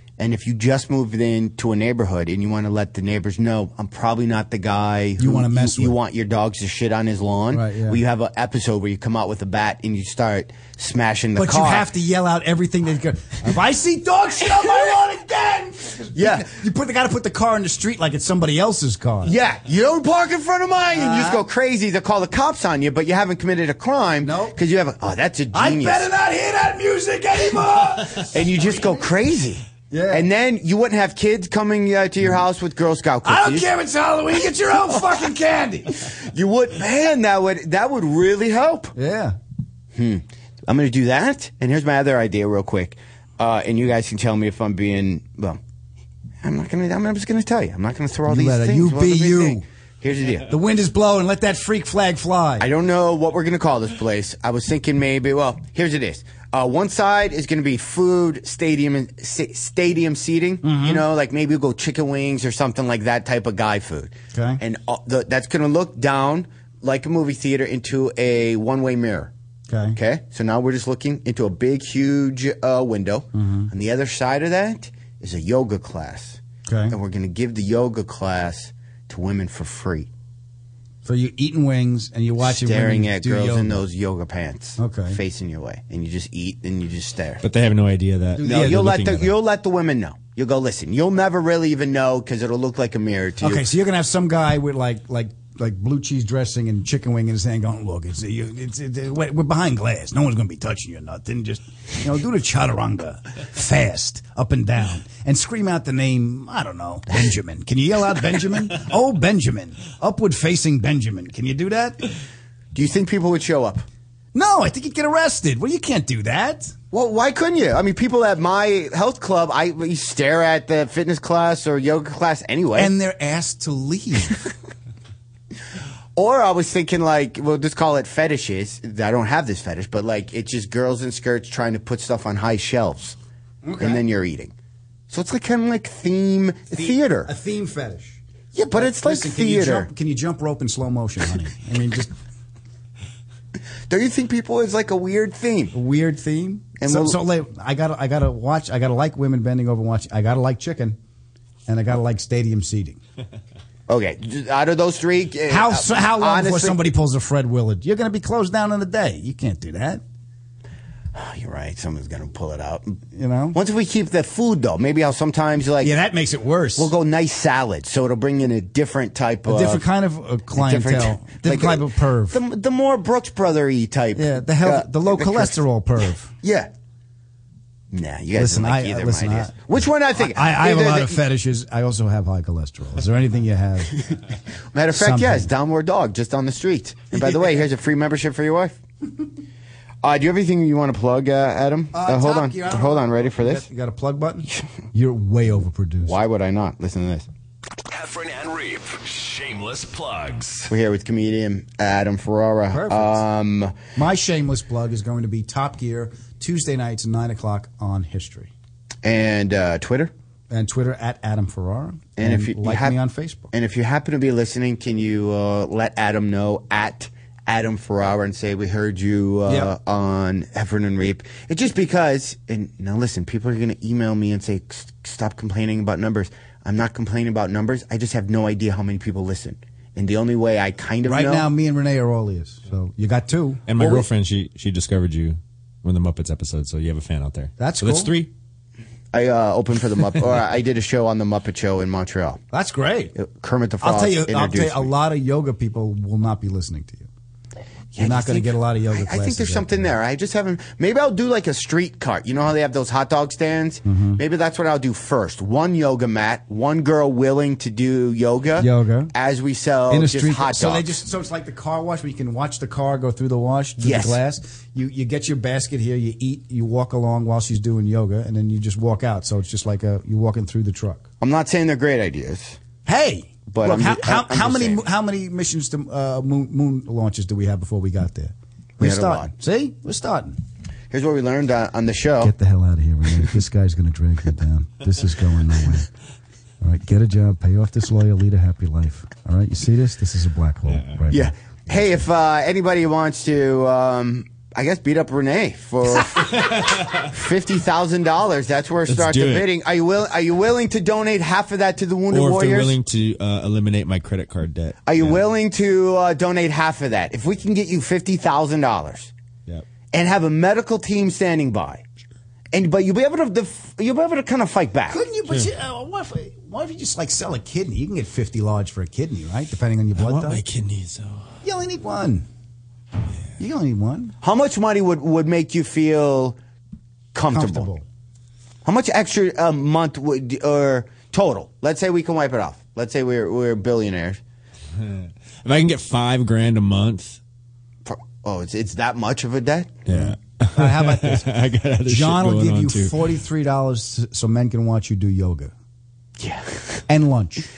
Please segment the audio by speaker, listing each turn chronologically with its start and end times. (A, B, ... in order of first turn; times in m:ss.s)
0:00.2-0:11.9 A
0:05.2-0:06.0 B
0:07.5-0:08.0 B
0:11.4-0:19.3 B
0:16.2-0:16.5 A
0:19.2-0:26.1 A
0:20.9-0:21.4 B
0:24.2-0:24.6 B
0:25.5-0:29.0 B
0:28.3-0:33.7 A
0:29.9-0:30.3 B
0:33.2-0:36.1 B
0:34.7-0:35.2 A
0:36.0-0:38.9 A
0:39.0-0:39.4 B
0:39.9-0:45.6 A
0:46.4-0:50.5 A
0:48.3-0:49.6 B
0:50.5-0:52.7 B
0:52.6-1:09.3 A
1:00.6-1:01.0 B
1:04.3-1:04.6 B
1:09.7-1:10.0 B
1:10.0-1:20.1 A
1:13.3-1:13.7 B
1:16.7-1:17.0 B
1:21.0-1:23.8 B
1:22.4-1:27.4 A
1:24.8-1:25.2 B
1:27.4-1:29.3 C
1:28.4-1:28.9 B
1:28.4-1:33.7 A
1:33.4-1:52.0 B
1:52.7-1:53.8 A
1:54.3-1:56.8 B
1:56.9-2:02.9 A
2:02.8-2:04.4 B
2:06.2-2:13.2 A
2:13.6-2:14.0 B
2:13.8-2:14.5 A
2:15.1-2:17.3 A
2:16.7-2:18.2 B
2:18.5-2:19.9 A
2:18.7-2:22.1 B
2:23.9-2:25.7 A
2:25.7-2:31.0 B
2:26.8-2:27.2 A
2:31.7-2:33.0 B
2:33.9-2:36.8 A
2:35.5-2:40.0 B
2:41.1-2:43.0 A
2:43.1-2:43.6 B
2:43.5-2:46.0 A
2:45.8-2:46.9 B
2:46.8-2:49.9 A
2:49.5-2:52.4 B
2:50.5-2:55.6 A
2:54.2-2:56.3 B
2:56.4-2:56.7 A
2:57.9-3:01.2 A
2:58.4-2:59.6 B
3:00.2-3:04.0 B
3:04.7-3:08.8 A
3:04.9-3:05.5 B
3:10.0-3:13.7 A
3:11.9-3:16.2 B
3:16.0-3:17.3 A
3:17.9-3:20.7 D
3:20.7-3:23.8 A
3:22.7-3:23.2 B
3:24.0-3:28.5 B
3:29.0-3:30.1 A
3:30.5-3:33.5 B
3:32.2-3:33.0 A
3:33.5-3:51.5 A
3:39.5-3:39.7 B
3:51.1-3:54.0 B
3:53.7-3:58.3 C
3:57.6-3:58.2 B
3:59.1-4:02.4 A
4:02.5-4:03.2 B
4:03.2-4:04.9 A
4:03.8-4:07.1 B
4:07.9-4:21.0 A
4:08.0-4:09.9 B
4:13.9-4:14.2 B
4:18.6-4:19.1 B
4:19.9-4:31.1 B
4:23.8-4:24.2 A
4:31.2-4:32.6 A
4:32.9-4:40.4 B
4:33.5-4:34.8 A
4:38.8-4:39.3 A
4:40.9-4:42.3 A
4:42.2-4:45.9 B
4:46.6-4:51.3 B
4:50.7-4:51.0 C
4:51.1-5:02.8 A
4:56.3-4:57.1 C
4:58.9-4:59.5 C
5:02.1-5:05.2 C
5:04.9-5:09.1 A
5:09.9-5:11.8 A
5:12.5-5:15.0 A
5:14.9-5:20.4 B
5:20.0-5:21.3 C
5:21.4-5:22.3 B
5:23.4-5:24.1 B
5:24.2-5:26.4 A
5:27.1-5:27.7 A
5:27.3-5:27.8 B
5:28.6-5:34.2 A
5:34.8-5:37.2 C
5:37.8-5:39.8 A
5:39.9-5:43.0 C
5:39.9-5:45.5 B
5:46.2-5:46.8 A
5:46.9-5:47.5 B